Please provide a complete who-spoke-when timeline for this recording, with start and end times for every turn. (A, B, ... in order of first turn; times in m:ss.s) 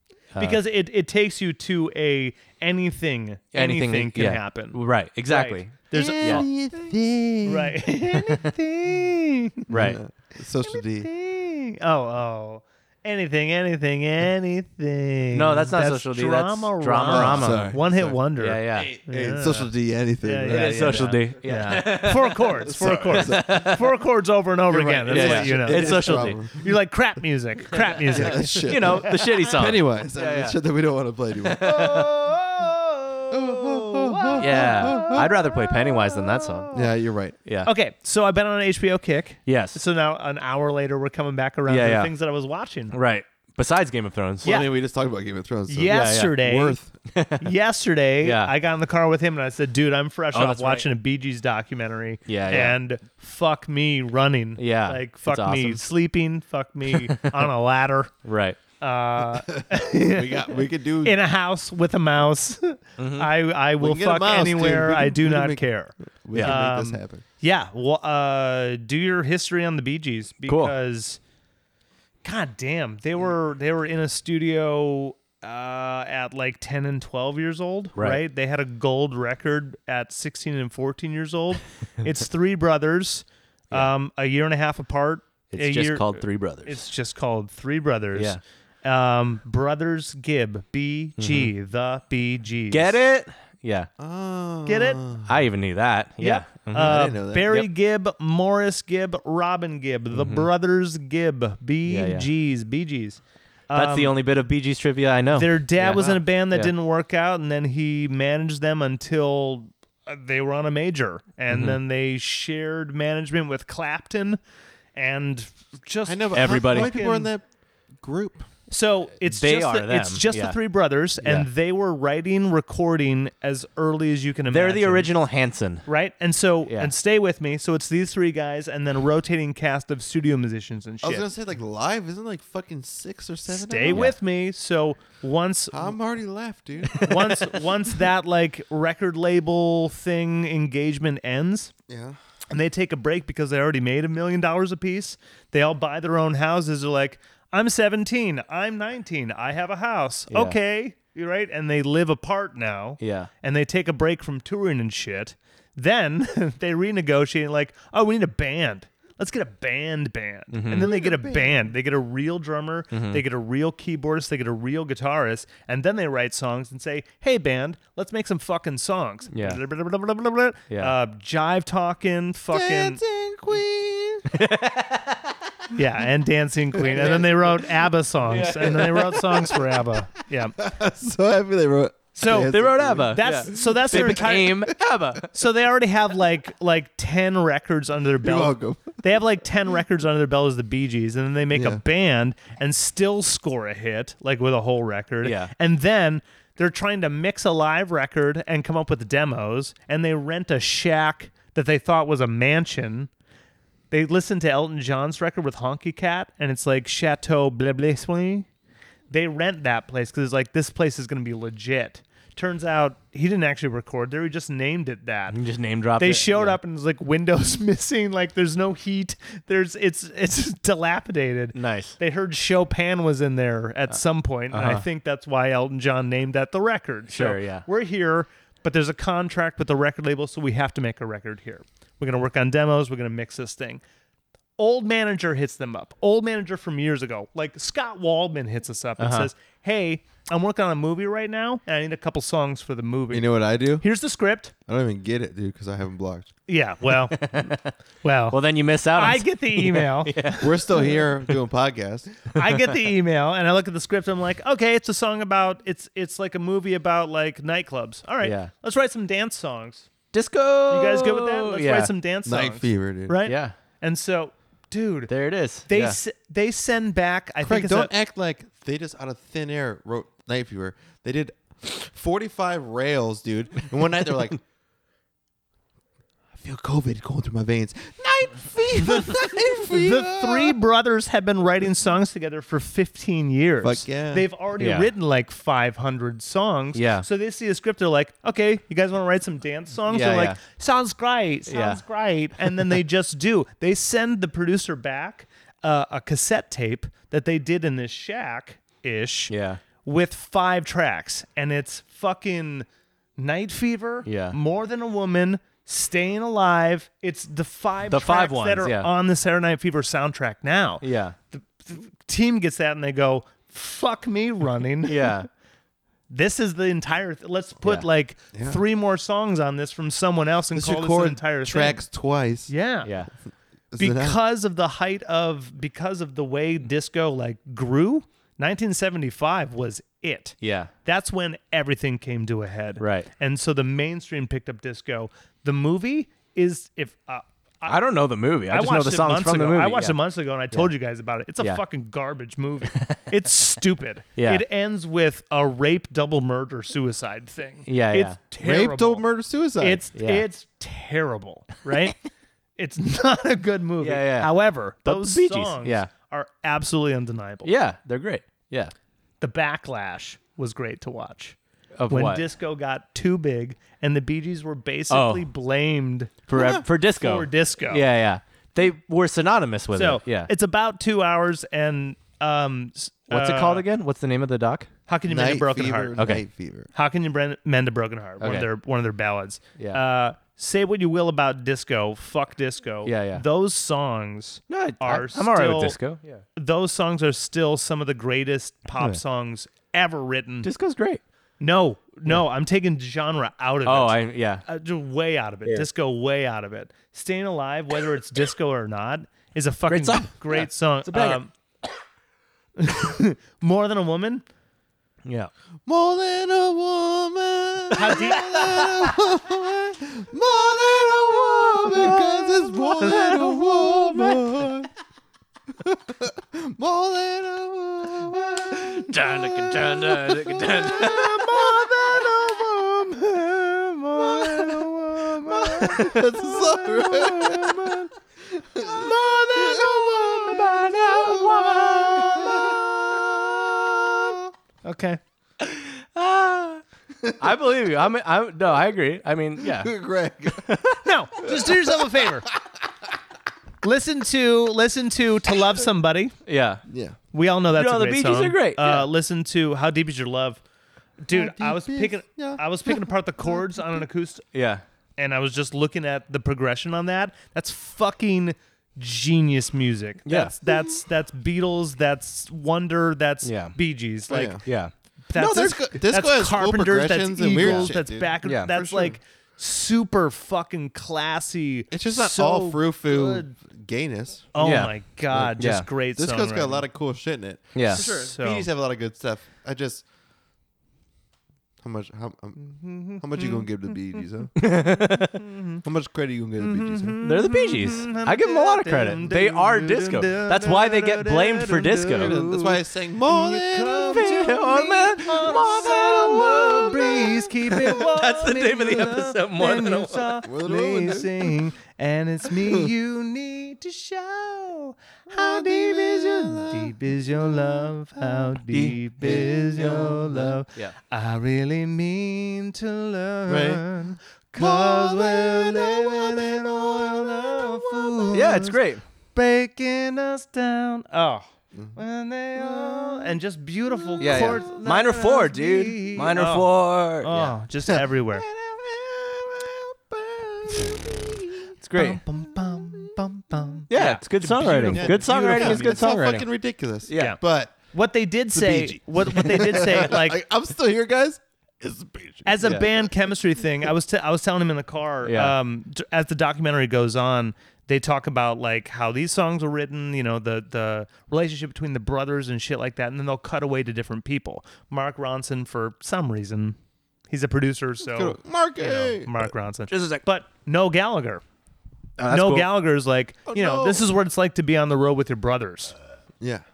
0:00.3-0:00.6 A
0:00.4-0:06.5 B
0:03.5-0:06.5 A
0:05.9-0:07.8 C
0:07.4-0:09.7 B
0:09.7-0:10.0 A
0:09.7-0:11.1 C
0:10.6-0:19.7 B
0:15.3-0:18.9 A
0:17.1-0:18.2 C
0:18.7-0:21.1 C
0:20.2-0:29.6 B
0:20.4-0:23.9 A
0:22.6-0:23.6 C
0:24.7-0:26.7 C
0:25.1-0:26.4 A
0:27.9-0:30.6 A
0:28.1-0:32.1 C
0:31.4-0:32.1 A
0:31.6-0:36.9 B
0:33.3-0:35.4 C
0:34.4-0:36.7 A
0:36.7-0:37.4 C
0:37.5-0:37.7 A
0:37.6-0:43.0 B
0:39.5-0:39.8 A
0:41.7-0:42.1 A
0:42.9-0:44.6 A
0:44.4-0:46.9 C
0:45.7-0:46.8 B
0:45.9-0:46.4 A
0:47.1-0:47.5 A
0:47.4-0:58.1 B
0:48.2-0:48.5 A
0:50.3-0:50.9 A
0:52.3-0:52.8 A
0:54.6-0:55.8 A
0:56.9-0:57.5 A
0:58.2-0:58.6 A
0:58.8-1:11.2 B
0:59.5-1:01.2 C
1:03.0-1:03.3 A
1:03.8-1:05.7 C
1:06.2-1:07.2 C
1:10.5-1:10.7 A
1:12.2-1:33.0 B
1:25.5-1:26.8 A
1:28.2-1:28.4 A
1:31.2-1:31.5 A
1:32.7-1:33.9 A
1:34.0-1:35.4 C
1:34.7-1:35.0 B
1:35.3-1:37.7 A
1:36.2-1:44.2 B
1:36.8-1:37.6 C
1:40.1-1:40.5 A
1:41.9-1:42.3 A
1:43.7-1:46.7 A
1:45.3-1:54.4 B
1:51.5-1:51.8 A
1:55.0-1:57.3 B
1:56.1-1:57.4 C
1:56.3-1:57.0 A
1:58.0-1:58.5 C
1:58.7-2:05.1 B
1:59.2-2:00.6 A
2:01.2-2:01.5 A
2:04.5-2:05.9 A
2:05.9-2:11.3 B
2:06.7-2:06.9 A
2:11.0-2:14.1 C
2:13.5-2:16.0 B
2:13.9-2:14.2 A
2:15.7-2:17.1 C
2:16.9-2:17.5 A
2:17.0-2:21.7 B
2:21.9-2:22.2 C
2:22.5-2:53.0 B
2:30.3-2:30.6 A
2:33.0-2:33.3 A
2:40.5-2:40.9 A
2:40.7-2:41.6 C
2:42.9-2:43.2 A
2:49.3-2:49.6 A
2:52.5-2:54.4 C
2:54.3-2:55.4 A
2:55.7-3:00.6 B
2:56.8-2:57.6 C
2:58.3-2:59.5 A
2:58.5-2:59.7 C
3:00.6-3:04.6 C
3:02.2-3:04.7 B
3:02.3-3:05.3 A
3:05.3-3:23.1 B
3:08.2-3:09.0 C
3:11.5-3:11.8 C
3:15.2-3:15.5 A
3:23.9-3:28.5 B
3:29.1-3:35.4 B
3:35.3-3:36.6 A
3:36.0-3:53.8 B
3:41.6-3:42.0 A
3:44.5-3:44.8 A
3:47.1-3:47.6 A
3:54.6-4:04.5 B
3:59.0-3:59.3 A
4:03.1-4:03.8 C
4:04.7-4:06.3 C
4:06.5-4:07.5 B
4:07.1-4:07.7 A
4:08.0-4:08.4 B
4:08.3-4:10.7 A
4:08.9-4:11.0 B
4:10.4-4:12.1 C
4:12.3-4:19.9 B
4:12.4-4:12.8 A
4:18.2-4:18.5 A
4:20.1-4:21.9 A
4:20.7-4:25.1 B
4:22.3-4:23.2 C
4:23.2-4:23.6 A
4:25.1-4:26.0 A
4:25.7-4:27.9 B
4:27.4-4:34.4 C
4:36.4-4:40.6 C
4:39.6-5:02.7 B
4:43.6-4:44.3 C
4:44.6-4:44.9 A
4:46.8-4:47.1 A
4:49.9-4:50.4 A
4:51.5-4:51.8 A
4:59.3-4:59.6 A
5:03.2-5:15.2 B
5:04.0-5:04.4 A
5:07.9-5:08.9 A
5:10.8-5:11.2 A
5:14.8-5:15.3 A
5:16.1-5:21.8 B
5:18.3-5:18.6 C
5:20.5-5:22.5 C
5:22.5-5:22.9 B
5:22.8-5:23.1 A
5:23.7-5:24.2 C
5:23.8-5:37.8 B
5:30.4-5:30.7 A
5:32.8-5:33.1 A
5:37.7-5:40.0 A
5:38.5-5:49.0 B
5:42.7-5:43.0 A
5:44.2-5:44.4 A
5:47.7-5:48.2 A
5:48.4-5:49.8 C
5:49.6-5:52.0 B
5:50.0-5:50.2 A
5:52.6-5:57.5 B
5:53.8-5:55.9 A
5:57.4-5:58.7 A
5:59.2-6:01.4 B
6:01.8-6:02.2 A
6:01.9-6:06.3 B
6:04.9-6:05.3 A
6:06.3-6:10.3 A
6:06.3-6:06.7 C
6:06.9-6:07.8 B
6:09.7-6:13.7 B
6:13.1-6:14.7 A
6:14.9-6:16.0 B
6:15.1-6:16.7 C
6:16.0-6:16.2 A
6:16.7-6:25.8 B
6:18.2-6:18.5 A
6:22.8-6:23.2 A
6:24.5-6:26.2 A
6:26.4-6:30.5 B
6:30.4-6:31.0 A
6:31.4-6:41.3 B
6:33.6-6:34.4 A
6:39.7-6:41.2 A
6:42.6-6:44.2 B
6:45.0-6:45.3 A
6:45.7-6:54.7 C
6:47.7-6:48.6 B
6:48.2-6:48.8 A
6:51.8-6:52.1 B
6:52.7-6:54.1 B
6:52.9-6:53.4 A
6:55.6-7:02.5 C
6:58.9-7:01.3 A
7:00.3-7:07.9 B
7:04.0-7:07.9 C
7:08.4-7:14.3 C
7:08.6-7:12.4 B
7:14.6-7:15.0 B
7:15.4-7:16.6 A
7:17.0-7:17.3 C
7:17.2-7:19.7 A
7:19.4-7:20.5 C
7:20.3-7:20.8 A
7:20.8-7:22.3 B
7:21.2-7:22.9 C
7:23.6-7:26.2 B
7:26.3-7:26.6 A
7:26.7-7:27.0 C
7:27.1-7:30.4 B
7:27.5-7:28.9 A
7:31.0-7:34.3 B
7:31.1-7:32.8 C
7:34.3-7:34.6 A
7:35.0-7:44.4 B
7:40.1-7:40.3 A
7:43.2-7:43.6 A
7:44.1-7:44.4 C
7:44.4-7:44.7 A
7:45.1-7:53.3 B
7:45.2-7:49.0 C
7:47.4-7:47.7 A
7:48.2-7:48.5 A
7:51.7-7:54.3 C
7:54.3-7:56.7 B
7:54.4-7:55.7 A
7:56.0-7:59.8 C
7:57.6-7:57.8 A
7:57.7-7:58.5 B
8:01.6-8:04.4 C
8:02.6-8:03.5 B
8:04.4-8:05.2 A
8:05.2-8:05.6 B
8:05.6-8:07.0 C
8:06.4-8:38.6 B
8:07.0-8:12.2 A
8:12.0-8:14.4 C
8:13.9-8:20.2 A
8:15.3-8:17.8 C
8:20.2-8:21.4 C
8:22.3-8:22.7 C
8:25.1-8:27.7 C
8:28.5-8:28.8 A
8:29.0-8:30.3 C
8:33.3-8:33.7 C
8:34.4-8:38.3 C
8:38.1-8:38.8 A
8:39.1-8:48.3 B
8:41.5-8:41.8 C
8:42.4-8:43.1 C
8:43.9-8:44.4 C
8:44.0-8:47.3 A
8:47.7-8:51.5 C
8:51.6-8:52.0 A
8:51.8-8:55.9 B
8:52.5-8:53.0 C
8:53.7-8:56.3 A
8:54.7-8:57.6 C
8:56.9-8:57.2 A
8:57.7-9:00.2 B
8:58.3-9:02.8 C
9:02.2-9:16.6 B
9:05.0-9:05.4 A
9:17.1-9:21.2 B
9:17.8-9:19.3 C
9:19.7-9:20.0 A
9:22.0-9:22.5 A
9:22.1-9:25.8 B
9:23.3-9:23.8 C
9:26.2-9:26.4 C